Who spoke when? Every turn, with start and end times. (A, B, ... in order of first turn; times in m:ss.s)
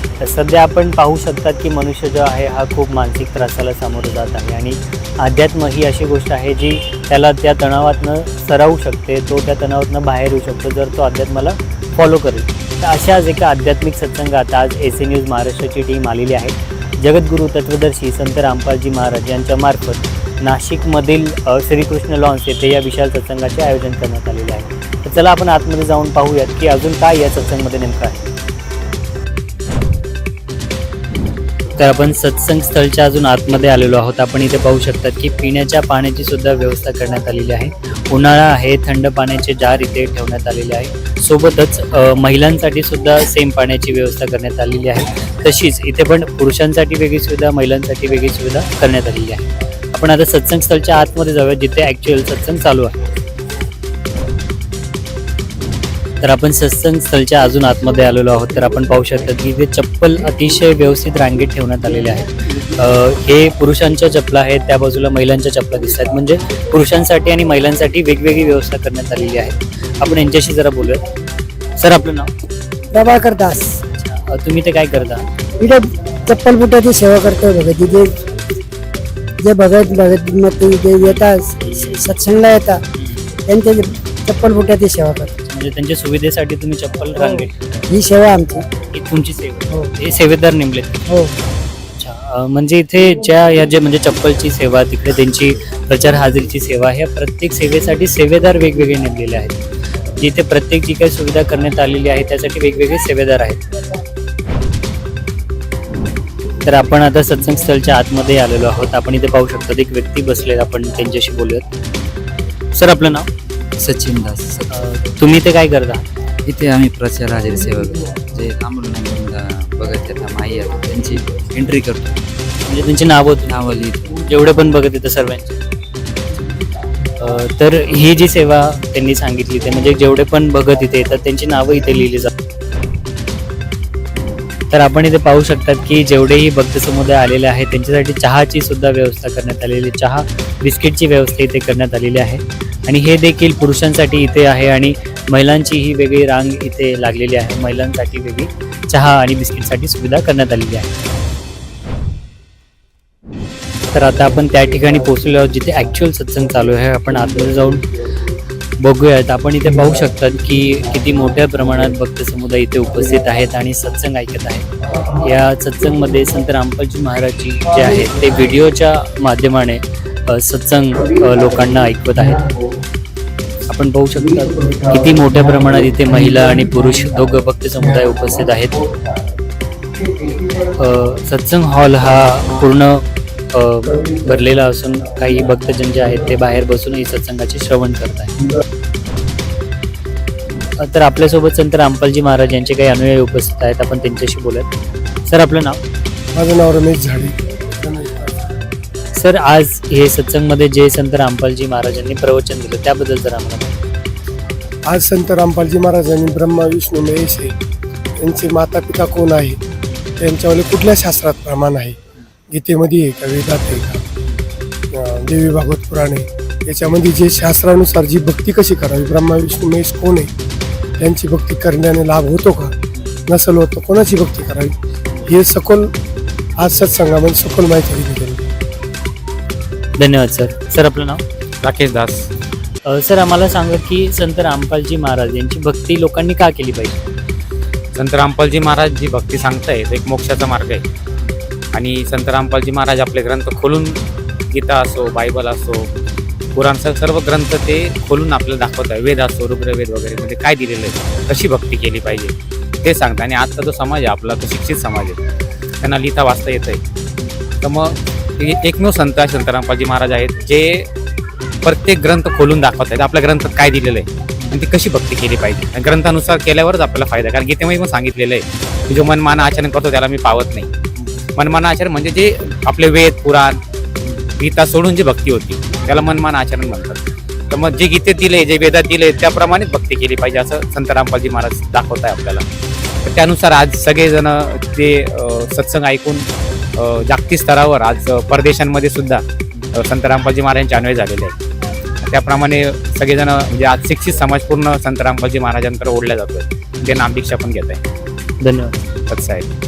0:00.2-0:28.2 A
0:31.8-0:53.0 A
0:56.2-1:11.0 A
1:11.8-1:12.3 A
1:12.9-1:13.7 B
1:13.9-1:15.2 A
1:15.6-1:18.4 B
1:19.4-1:22.8 B
1:21.0-1:22.1 A
1:23.0-1:23.2 A
1:23.4-1:25.3 B
1:25.5-1:27.9 A
1:27.2-1:28.6 B
1:28.9-1:31.1 A
1:32.0-1:39.6 A
1:40.2-1:43.6 A
1:46.6-1:51.7 A
1:52.7-1:53.3 A
1:53.8-1:54.8 C
1:54.7-1:56.0 A
1:56.4-2:02.2 C
2:02.7-2:03.5 A
2:03.5-2:04.1 C
2:04.2-2:05.6 A
2:07.2-2:12.3 A
2:14.7-2:30.9 A
2:33.9-2:37.9 A
2:38.8-2:52.5 A
2:53.7-2:58.8 A
3:00.7-3:08.4 A
3:10.8-3:14.7 A
3:15.2-3:15.8 A
3:16.3-3:18.4 D
3:19.2-3:23.8 A
3:24.9-3:27.5 D
3:28.2-3:29.6 D
3:30.2-3:32.0 D
3:32.5-3:34.0 D
3:34.9-3:40.3 D
3:41.0-3:42.7 D
3:43.3-3:45.9 D
3:46.6-3:48.4 D
3:50.0-3:51.2 A
3:51.6-3:52.3 E
3:52.8-3:57.0 A
3:57.9-4:00.8 E
4:01.7-4:04.0 E
4:04.5-4:05.9 E
4:06.5-4:15.2 E
4:15.8-4:16.8 E
4:17.6-4:20.9 E
4:21.6-4:30.7 E
4:31.4-4:42.4 E
4:43.0-4:46.2 E
4:46.8-4:49.2 E
4:49.8-4:51.3 E
4:52.0-4:57.8 E
4:58.4-4:58.8 A
4:59.1-4:59.5 E